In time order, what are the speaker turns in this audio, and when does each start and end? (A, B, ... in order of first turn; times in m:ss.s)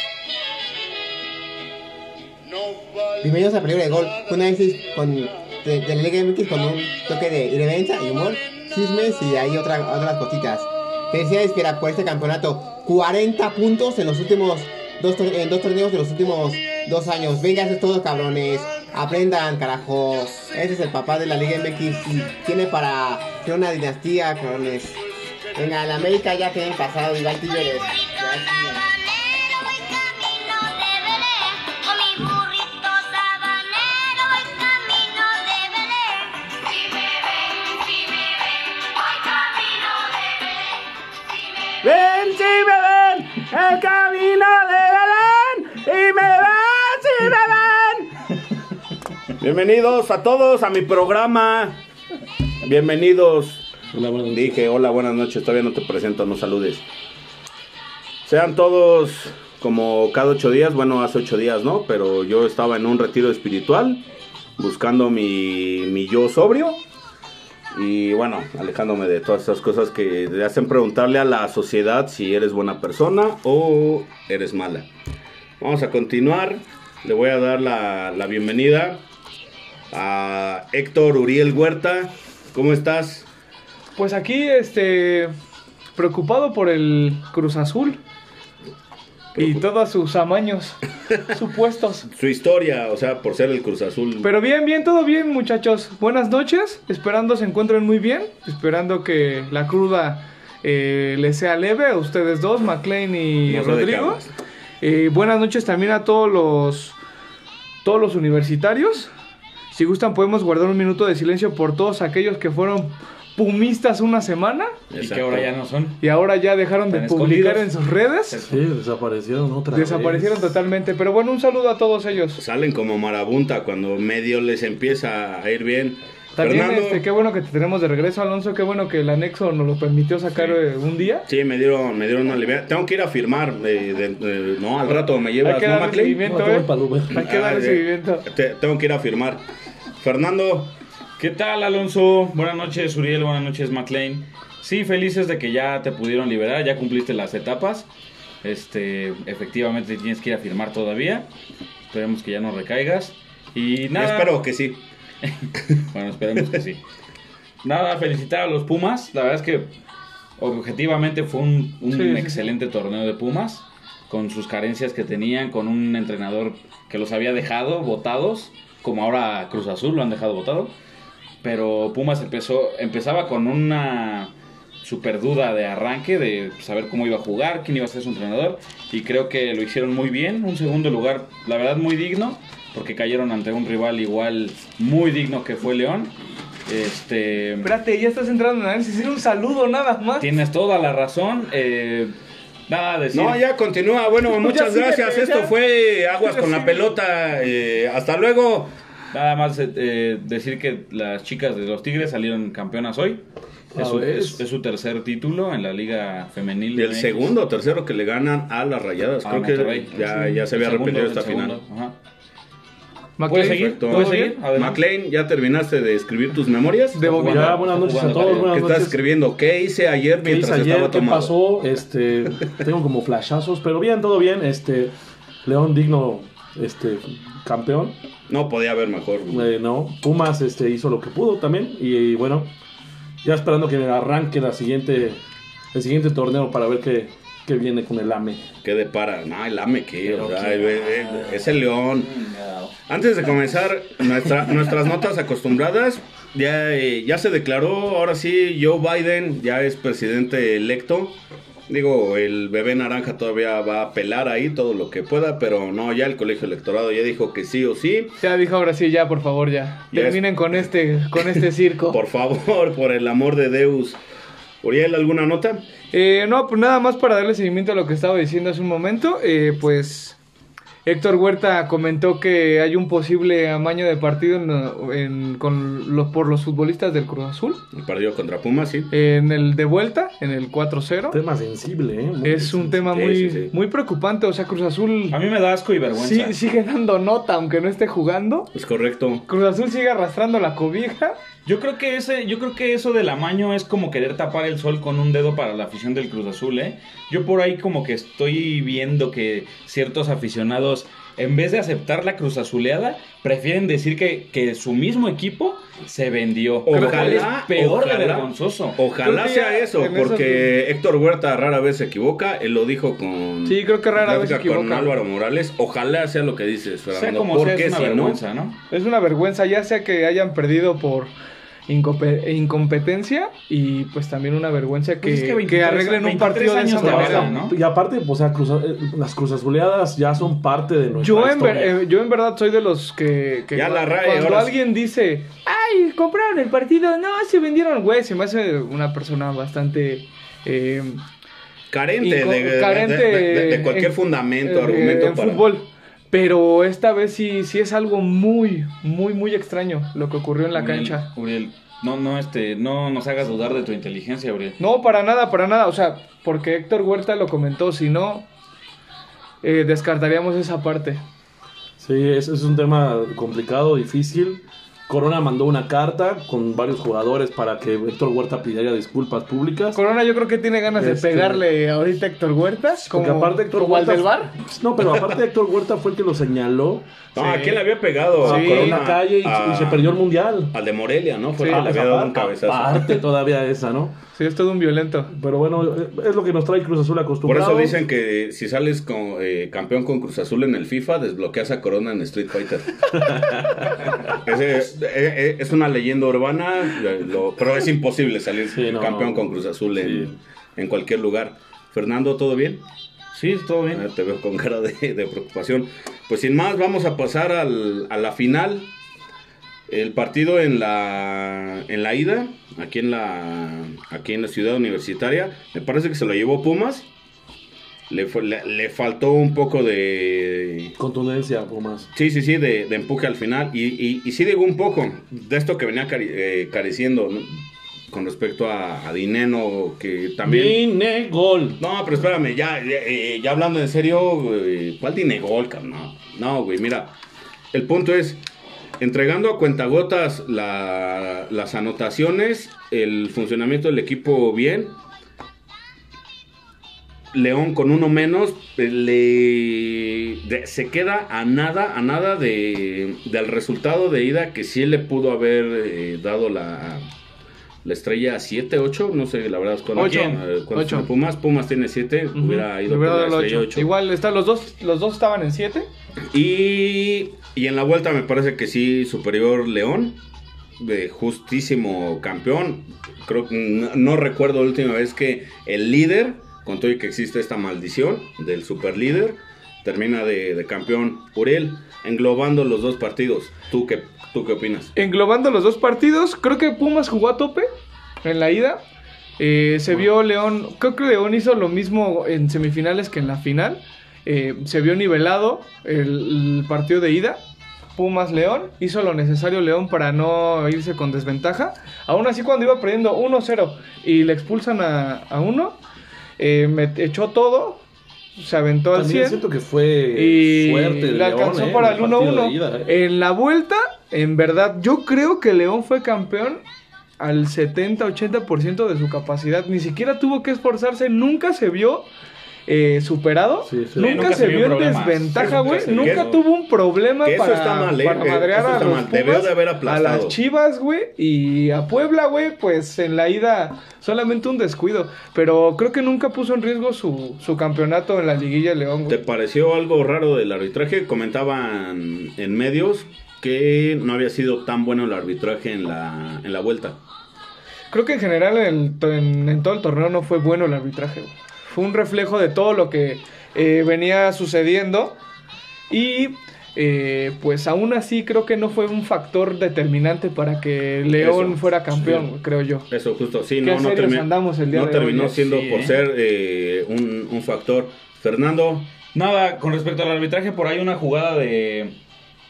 0:03.2-0:25.0 A
0:25.6-0:28.8 A
0:27.9-0:28.2 B
0:28.8-0:40.8 B
0:41.8-0:48.3 C
0:49.4-0:51.8 C
0:52.6-0:53.6 C
0:53.9-0:54.6 D
0:54.3-0:56.8 C
0:58.2-1:04.0 C
1:04.6-1:06.8 C
1:07.7-1:14.9 C
1:15.6-1:19.0 C
1:19.9-1:23.3 C
1:24.0-1:25.3 E
1:26.0-1:28.0 E
1:29.4-1:32.1 E
1:32.1-1:34.3 C
1:34.2-1:44.2 E
1:43.5-1:44.3 C
1:44.8-1:47.0 E
1:47.8-1:49.1 E
1:49.7-1:54.7 E
1:54.9-1:55.5 C
1:55.0-1:56.0 F
1:56.0-1:58.4 E
1:56.9-1:57.7 F
1:58.3-1:58.6 F
1:58.5-2:00.6 D
1:59.7-2:02.4 E
2:02.4-2:07.0 C
2:06.4-2:11.3 E
2:11.3-2:16.2 C
2:14.9-2:18.3 E
2:16.2-2:17.3 D
2:17.2-2:19.4 C
2:20.0-2:20.7 C
2:21.2-2:27.9 F
2:28.4-2:31.3 F
2:31.9-2:34.4 F
2:34.0-2:34.8 C
2:35.2-2:36.8 F
2:37.6-2:39.7 F
2:40.4-2:50.8 F
2:41.9-2:42.5 E
2:51.4-2:54.3 F
2:54.8-3:06.1 F
3:06.7-3:07.7 F
3:07.6-3:10.4 E
3:10.2-3:12.1 F
3:12.7-3:13.4 F
3:13.1-3:18.7 C
3:14.3-3:15.5 E
3:16.2-3:16.8 E
3:19.1-3:23.2 F
3:23.7-3:24.4 D
3:23.8-3:27.4 F
3:26.8-3:31.6 C
3:29.2-3:32.0 F
3:33.2-3:34.4 E
3:33.3-3:34.8 F
3:33.5-3:37.0 C
3:36.9-3:37.5 E
3:37.0-3:38.5 F
3:37.2-3:39.0 D
3:38.5-3:41.3 C
3:40.2-3:44.9 D
3:45.4-3:48.0 D
3:48.3-3:49.5 C
3:49.3-3:52.5 D
3:53.2-3:55.2 D
3:55.7-3:58.4 D
3:58.6-4:02.1 C
4:00.0-4:01.1 D
4:00.2-4:02.8 F
4:02.9-4:11.2 C
4:11.7-4:18.2 C
4:18.2-4:22.0 E
4:19.9-4:20.2 C
4:21.4-4:24.0 C
4:24.6-4:25.6 C
4:25.9-4:30.2 E
4:30.8-4:37.6 E
4:37.7-4:38.9 C
4:38.9-4:41.2 E
4:41.1-4:43.0 D
4:42.2-4:45.2 E
4:42.9-4:43.5 C
4:45.1-4:46.4 F
4:45.9-4:48.5 E
4:48.5-4:49.3 C
4:49.3-4:51.2 E
4:51.5-5:08.8 F
5:06.7-5:18.2 C
5:06.7-5:07.3 E
5:09.0-5:10.6 E
5:13.5-5:15.0 E
5:16.9-5:18.6 F
5:18.7-5:21.1 E
5:21.7-5:27.3 E
5:25.0-5:27.6 F
5:26.8-5:31.8 D
5:31.0-5:41.0 E
5:33.5-5:34.6 C
5:41.7-5:45.5 C
5:42.0-5:51.1 E
5:50.5-5:54.6 F
5:54.6-5:58.3 E
5:59.4-6:01.0 E
6:01.8-6:09.8 D
6:09.7-6:14.4 E
6:10.8-6:11.4 D
6:12.8-6:16.9 D
6:17.2-6:20.0 C
6:17.2-6:17.6 E
6:18.2-6:20.6 D
6:18.2-6:18.8 E
6:20.5-6:23.0 C
6:21.4-6:24.0 D
6:21.4-6:21.7 E
6:24.2-6:25.1 E
6:25.1-6:27.7 D
6:27.2-6:42.6 C
6:27.4-6:27.8 E
6:33.0-6:33.8 D
6:38.5-6:40.1 D
6:43.1-6:43.8 F
6:43.7-6:48.7 C
6:49.7-6:56.9 C
6:57.9-7:00.8 C
7:00.8-7:01.9 D
7:01.9-7:10.6 C
7:10.2-7:11.6 D
7:11.6-7:16.9 C
7:17.5-7:18.2 C
7:18.8-7:24.8 C
7:27.1-7:36.9 C
7:37.6-7:43.7 C
7:39.7-7:40.2 F
7:39.8-7:40.9 E
7:42.1-7:45.7 E
7:46.1-7:50.0 C
7:50.6-8:04.7 C
8:04.8-8:07.5 E
8:08.0-8:08.6 E
8:09.2-8:17.2 E
8:17.8-8:25.6 E
8:26.2-8:27.6 E
8:28.2-8:29.2 E
8:28.7-8:32.8 D
8:29.9-8:36.4 E
8:37.0-8:41.9 E
8:42.5-8:59.0 E
8:43.5-8:44.2 D
8:43.8-8:46.2 F
8:45.2-8:46.2 C
8:47.0-8:50.2 C
8:58.9-9:06.8 C
9:07.7-9:15.0 E
9:15.7-9:22.7 E
9:20.9-9:22.0 C
9:22.7-9:28.7 C
9:23.4-9:25.2 E
9:25.2-9:25.8 F
9:28.9-9:31.8 F